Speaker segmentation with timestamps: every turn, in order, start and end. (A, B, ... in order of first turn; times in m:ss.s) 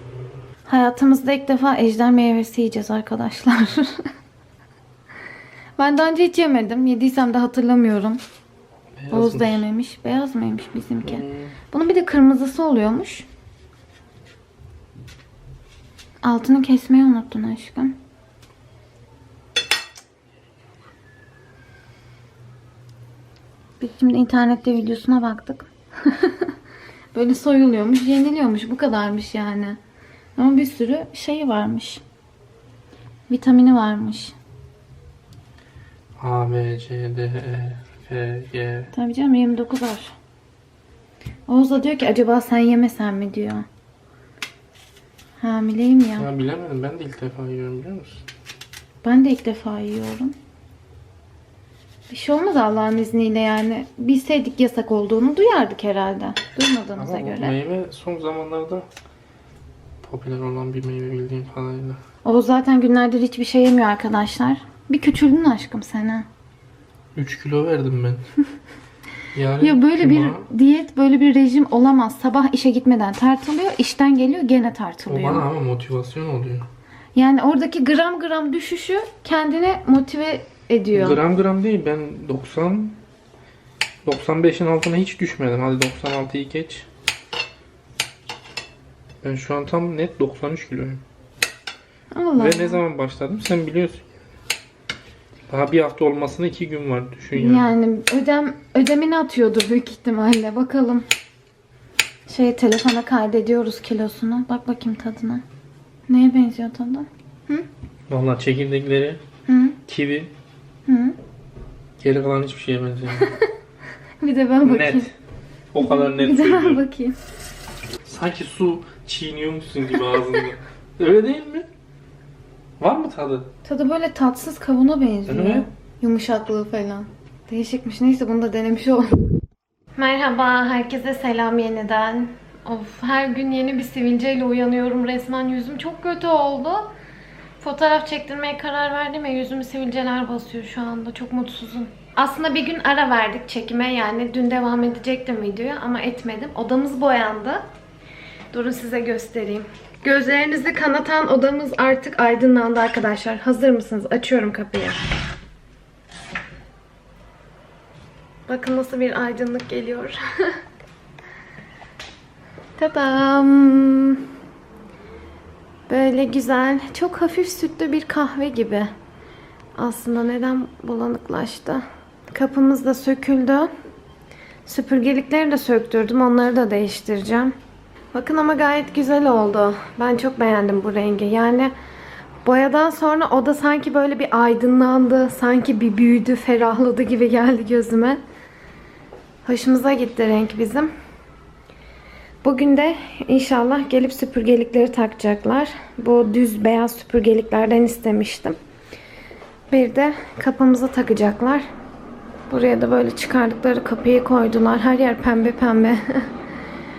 0:00.7-0:03.9 A
0:05.8-0:08.2 A
0:09.0-0:09.6 B
0:09.1-0:13.3 A
0:11.0-0:11.6 B
0:16.2-0:18.0 A
0:23.8-0:26.5 A
0:27.1-0:29.8 A
0:30.4-0:32.0 A
0:33.3-0:34.4 A
0:36.2-0:38.9 B
0:38.9-0:40.2 A
0:41.5-0:43.7 A
0:45.4-0:46.3 A
0:46.2-0:48.2 B
0:49.0-0:50.4 A
0:52.1-0:57.6 A
0:57.0-0:58.9 B
1:00.0-1:02.0 B
1:02.2-1:06.3 A
1:07.2-1:08.2 B
1:09.4-1:10.5 B
1:09.6-1:15.5 A
1:15.1-1:16.7 B
1:17.2-1:21.2 A
1:20.9-1:23.0 B
1:24.0-1:26.9 B
1:29.2-1:31.0 B
1:32.1-1:32.8 A
1:32.4-1:34.1 B
1:35.5-1:37.7 B
1:37.4-1:41.1 A
1:42.3-1:45.4 A
1:46.1-1:47.7 A
1:48.1-1:49.2 B
1:49.5-1:49.8 A
1:49.9-1:50.3 B
1:50.9-1:51.2 A
1:52.0-1:53.3 B
1:54.2-1:55.1 A
1:54.6-1:55.1 B
1:55.7-1:56.8 B
1:55.8-1:57.2 A
1:58.0-2:01.7 B
2:02.8-2:03.5 B
2:03.6-2:09.2 A
2:05.3-2:05.7 B
2:10.0-2:16.9 A
2:17.6-2:27.6 A
2:28.5-2:35.0 A
2:38.5-2:40.5 A
2:42.8-2:44.3 A
2:45.9-2:48.9 A
2:49.8-2:53.7 A
2:54.6-2:57.5 A
2:58.1-3:01.7 A
3:02.4-3:08.2 A
3:09.4-3:10.9 A
3:12.4-3:18.6 A
3:19.7-3:21.7 A
3:22.5-3:26.3 A